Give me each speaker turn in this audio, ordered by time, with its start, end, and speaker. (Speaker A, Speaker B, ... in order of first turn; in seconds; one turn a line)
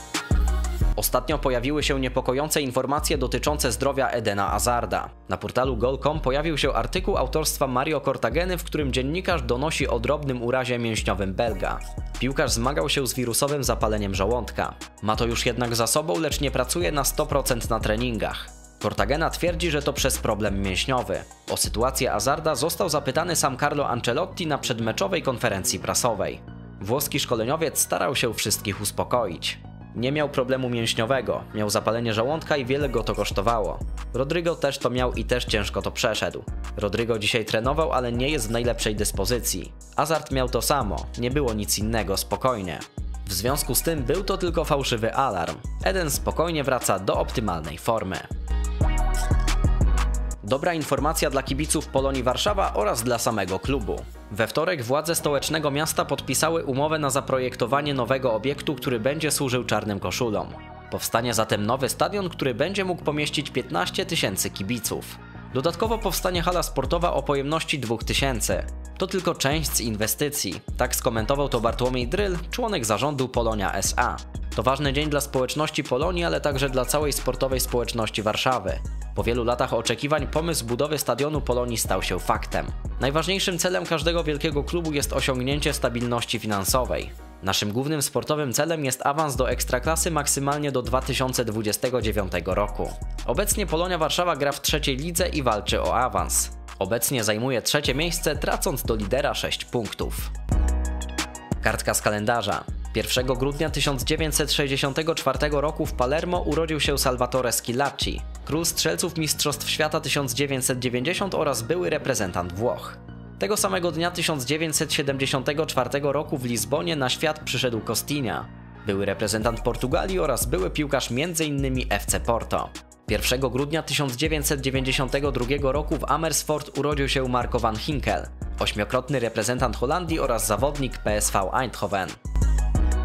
Speaker A: 0.9-48.3
Speaker A: 50.4-100.3
Speaker A: 101.6-132.2